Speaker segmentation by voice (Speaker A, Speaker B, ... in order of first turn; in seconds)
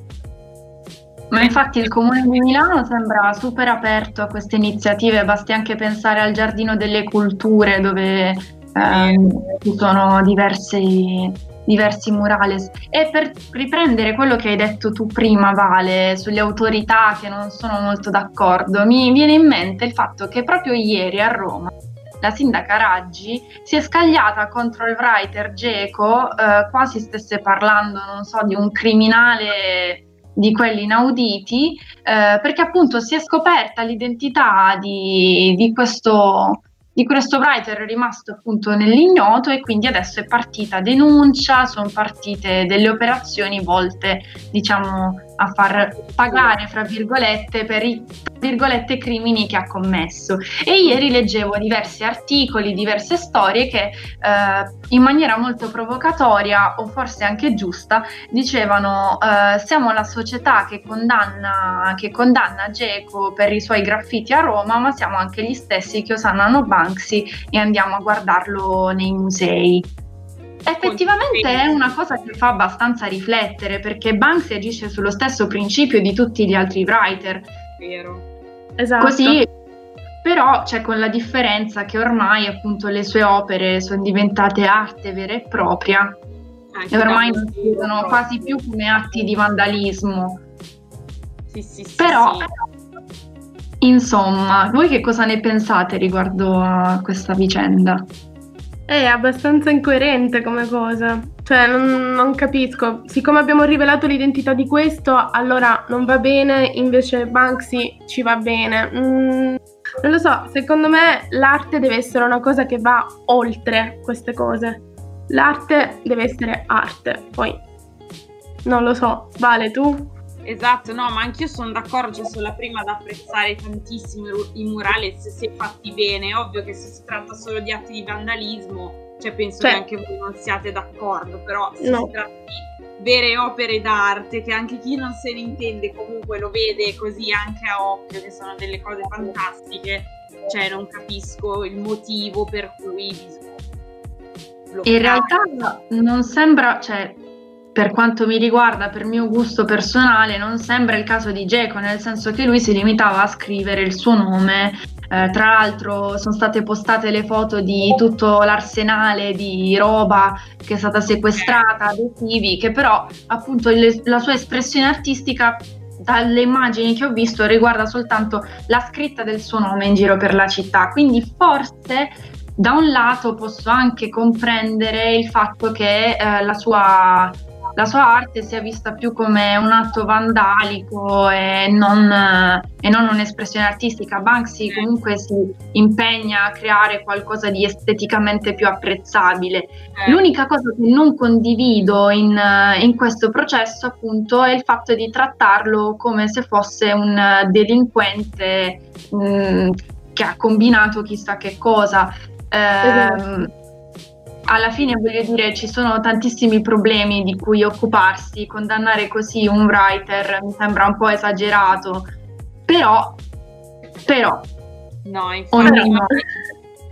Speaker A: 1.3-69.9, 70.6-77.5, 79.0-79.5, 80.2-86.2, 86.9-90.4, 92.0-92.6, 93.8-98.1, 144.8-147.2, 147.7-203.5, 204.5-212.1, 212.7-213.2, 214.1-214.4, 215.5-216.1
Speaker B: 1.4-1.9, 8.8-9.6, 45.8-46.6, 70.8-71.9, 77.8-78.3, 86.7-88.6, 91.5-92.5, 120.4-143.6, 144.7-145.5, 161.3-161.6, 189.9-190.2, 204.4-205.6, 215.0-216.2
Speaker C: 78.8-79.4, 98.9-117.6, 118.6-120.1, 131.8-132.1, 202.8-203.3, 215.6-216.1